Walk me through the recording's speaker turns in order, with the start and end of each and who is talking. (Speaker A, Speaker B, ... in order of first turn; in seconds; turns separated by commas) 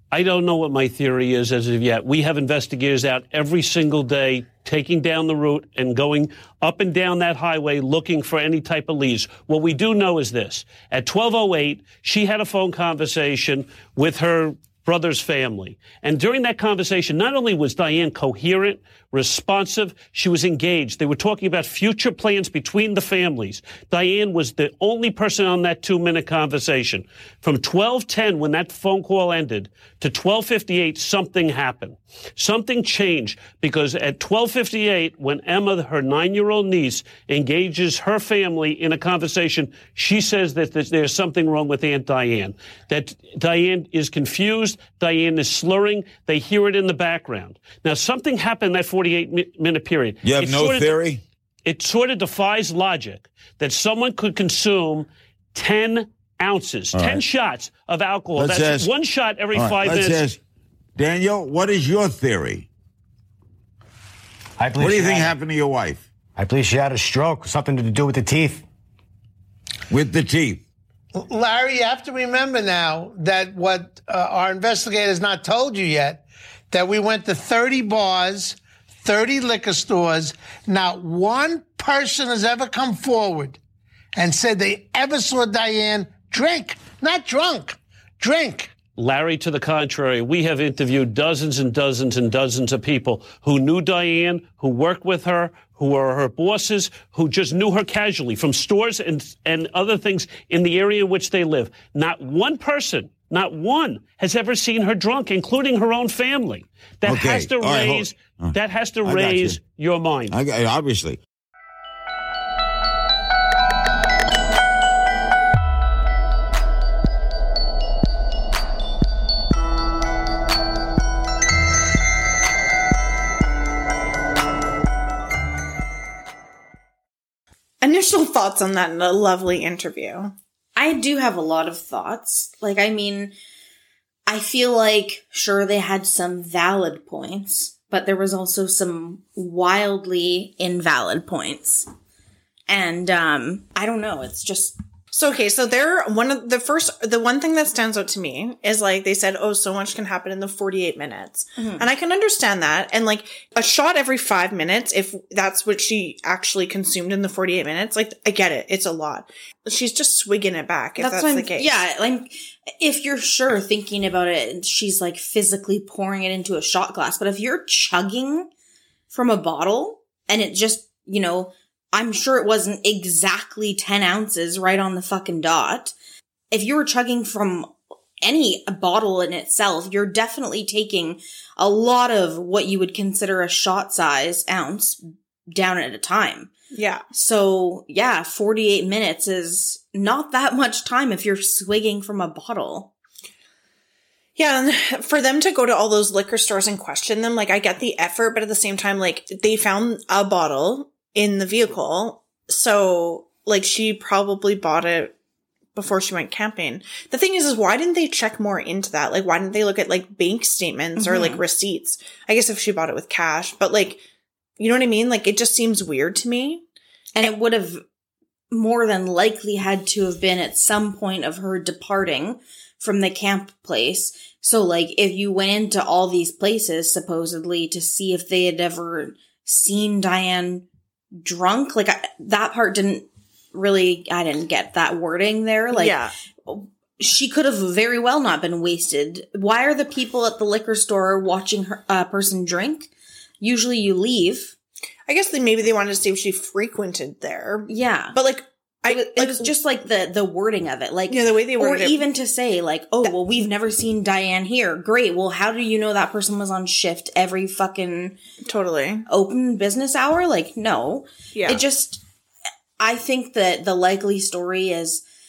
Speaker A: 0.1-51.0, Speaker B: 50.2-51.2, Speaker A: 51.6-60.2, Speaker B: 56.9-57.2, Speaker B: 58.4-58.9, Speaker B: 59.5-60.4, Speaker B: 61.0-62.7, Speaker C: 64.6-65.3, Speaker B: 64.8-66.0, Speaker C: 66.3-68.6, Speaker B: 69.9-70.6, Speaker D: 71.1-83.6, Speaker D: 84.2-88.7, Speaker A: 89.0-110.3, Speaker B: 107.0-109.6, Speaker B: 110.3-111.2, Speaker E: 127.8-130.3, Speaker F: 130.8-133.3, Speaker F: 134.3-141.9, Speaker F: 142.7-144.8, Speaker E: 145.1-161.8, Speaker F: 151.6-151.9, Speaker F: 161.0-168.5, Speaker F: 169.1-175.9, Speaker F: 176.5-186.5, Speaker E: 186.7-187.0, Speaker F: 187.1-192.9, Speaker E: 194.3-205.1, Speaker E: 205.7-214.0, Speaker F: 210.9-211.4, Speaker E: 214.6-216.6, Speaker F: 217.2-217.8, Speaker F: 218.5-235.9, Speaker E: 235.7-236.1, Speaker F: 236.5-242.9, Speaker F: 243.4-244.5, Speaker E: 245.1-249.6, Speaker F: 247.7-248.2, Speaker F: 248.9-258.2, Speaker E: 251.1-252.0, Speaker E: 258.4-259.0, Speaker F: 259.1-262.0, Speaker E: 261.3-261.6, Speaker F: 262.8-265.0